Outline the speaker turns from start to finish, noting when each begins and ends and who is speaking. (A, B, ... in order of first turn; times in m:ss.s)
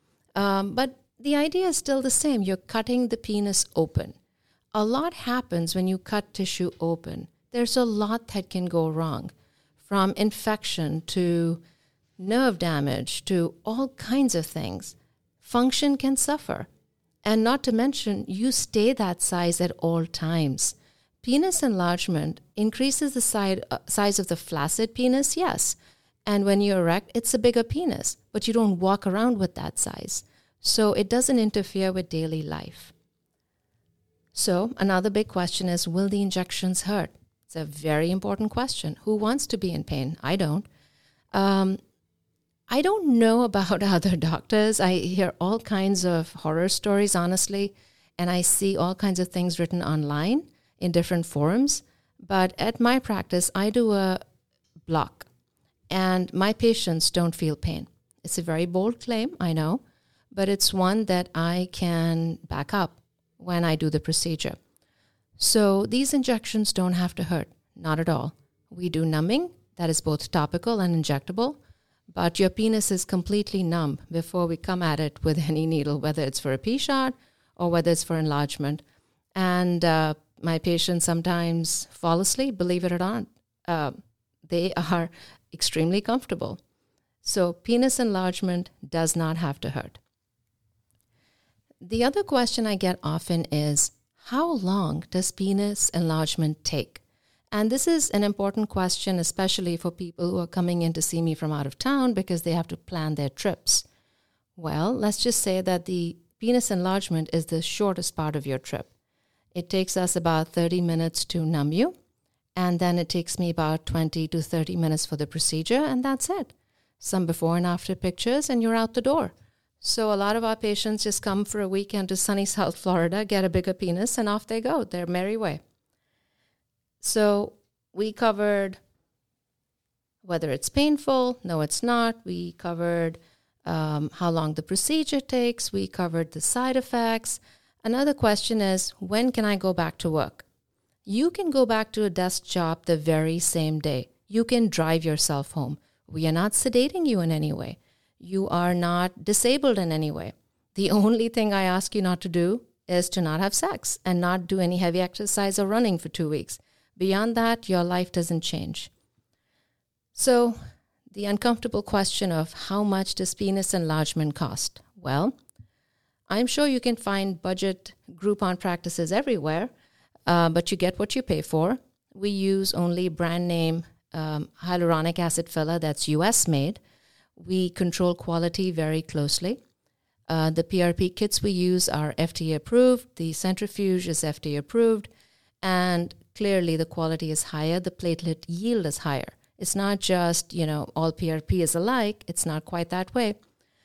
0:00.4-0:04.2 A
0:04.7-0:11.6 A
0:12.2-0:16.7 A
0:17.2-0:32.9 A
0:34.3-0:40.6 A
0:41.3-0:41.8 A
0:42.7-0:54.2 A
0:54.8-0:55.3 A
0:55.9-1:04.6 A
1:05.4-1:11.6 A
1:12.1-1:18.8 A
1:19.4-1:26.6 A
1:27.2-1:30.0 A
1:31.8-1:43.8 A
1:44.6-1:48.9 A
1:49.5-1:51.9 A
1:52.5-2:05.6 A
2:07.0-2:08.8 A
2:10.2-2:20.4 A
2:21.0-2:38.9 A
2:40.1-2:40.6 A
2:41.1-2:45.3 A
2:46.3-2:49.7 A
2:50.2-2:56.8 A
2:57.4-2:59.6 A
3:00.3-3:05.1 A
3:05.6-3:13.4 A